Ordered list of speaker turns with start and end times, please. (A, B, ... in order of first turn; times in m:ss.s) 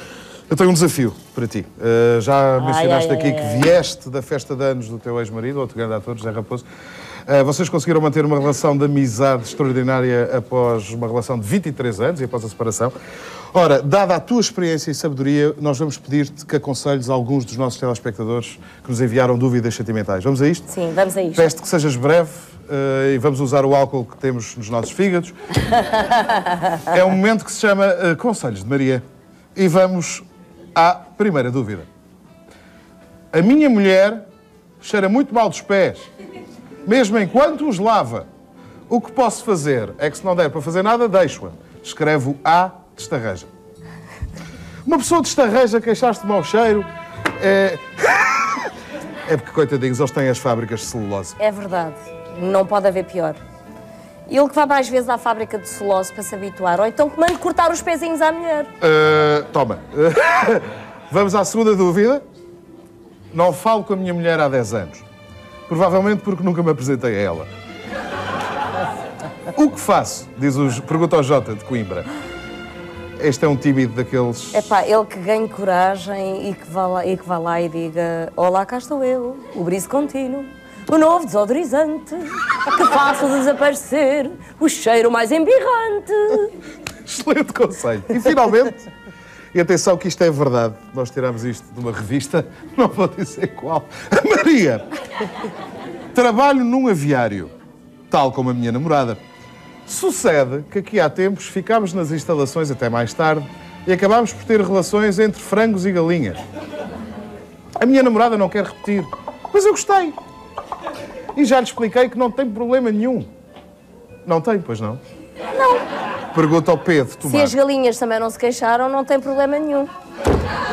0:00.5-0:06.6 A
0:02.6-0:03.7 B
0:07.2-0:12.9 A
0:13.5-0:20.7 A
0:20.7-0:21.5 B
0:21.3-0:25.3 A
0:25.7-0:26.7 B
0:26.8-0:29.0 A
0:29.5-0:30.2 A
0:30.7-0:31.9 A
0:33.3-0:34.2 A
0:34.8-0:36.1 A
0:36.8-0:38.2 A
0:38.9-0:43.5 A
0:44.8-0:46.9 A
0:47.4-0:48.7 A
0:49.2-0:51.4 A
0:51.4-0:53.4 B
0:54.3-0:58.7 B
0:58.8-1:02.2 A
1:03.3-1:05.0 A
1:05.7-1:07.5 A
1:09.5-1:12.1 A
1:13.2-1:14.7 A
1:14.5-1:26.5 B
1:27.0-1:28.9 A
1:29.5-1:34.8 A
1:36.1-1:37.5 A
1:38.1-1:39.2 A
1:39.8-1:46.4 A
1:47.8-1:50.1 A
1:51.4-1:53.3 A
1:54.2-1:55.0 A
1:55.6-1:55.8 B
1:56.3-1:57.5 A
1:57.2-1:59.9 B